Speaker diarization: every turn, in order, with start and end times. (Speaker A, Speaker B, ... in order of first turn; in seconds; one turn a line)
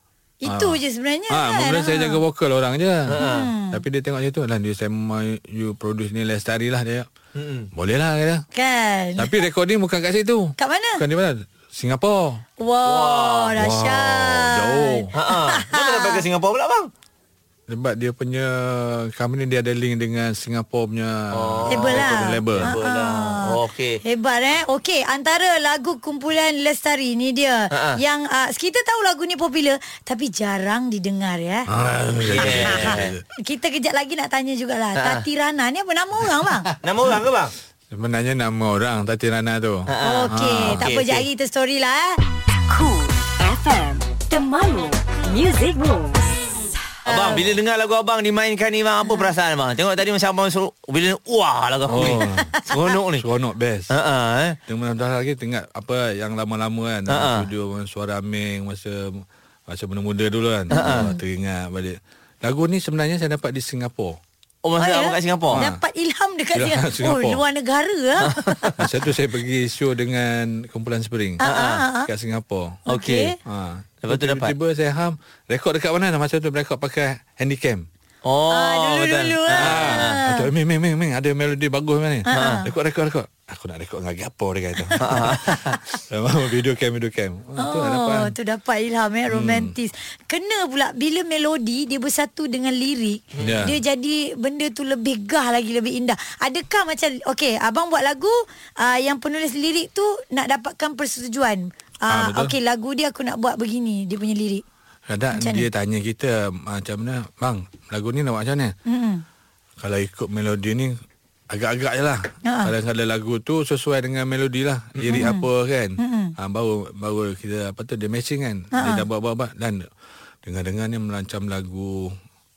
Speaker A: 0.4-2.2
Speaker B: 0.5-0.8
Speaker B: 1.3-7.1
Speaker C: 3.1-3.5
Speaker A: 3.2-3.8
Speaker C: 7.4-7.7
Speaker B: 7.7-8.4
Speaker A: 8.5-9.4
Speaker B: 9.2-12.4
Speaker A: 10.6-11.0
Speaker A: 12.6-16.2
Speaker C: 12.9-13.5
Speaker B: 13.5-15.1
Speaker C: 15.1-16.9
Speaker B: 17.7-22.7
Speaker C: 21.3-24.0
Speaker A: 21.7-31.7
Speaker C: 27.7-28.0
Speaker B: 31.7-33.2
Speaker C: 32.3-33.1
Speaker A: 32.4-36.7
Speaker C: 35.0-35.2
Speaker C: 36.7-37.5
Speaker B: 37.9-40.9
Speaker C: 39.9-41.3
Speaker A: 40.0-42.2
Speaker D: 42.7-46.3
Speaker A: 47.1-47.4
Speaker C: 47.1-53.2
Speaker A: 49.1-49.3
Speaker B: 51.9-52.6
Speaker A: 52.0-52.7
Speaker B: 53.2-54.0
Speaker C: 53.9-54.6
Speaker B: 54.7-64.2
Speaker C: 57.1-57.5
Speaker A: 60.7-61.2
Speaker C: 60.8-61.1
Speaker C: 64.7-65.6
Speaker A: 64.8-68.7
Speaker B: 65.5-65.8
Speaker B: 66.5-67.4
Speaker C: 68.2-68.8
Speaker B: 68.8-71.4
Speaker A: 71.4-72.1
Speaker C: 71.4-71.8
Speaker B: 72.0-72.8
Speaker A: 72.9-73.3
Speaker C: 72.9-73.3
Speaker B: 73.5-77.9
Speaker C: 74.0-74.5
Speaker C: 78.2-80.2
Speaker A: 78.5-80.5
Speaker B: 79.6-88.3
Speaker A: 82.3-82.6
Speaker C: 82.3-82.6
Speaker A: 84.9-85.1
Speaker C: 85.0-85.8
Speaker A: 87.6-104.6
Speaker B: 89.3-89.7
Speaker B: 93.4-93.8
Speaker B: 102.1-102.5
Speaker B: 105.1-108.8
Speaker A: 105.3-105.7
Speaker A: 108.9-109.2
Speaker B: 109.8-111.0
Speaker B: 111.5-119.8
Speaker A: 112.5-112.7
Speaker A: 115.1-115.5
Speaker A: 116.0-116.3
Speaker A: 118.7-119.0
Speaker B: 120.4-122.2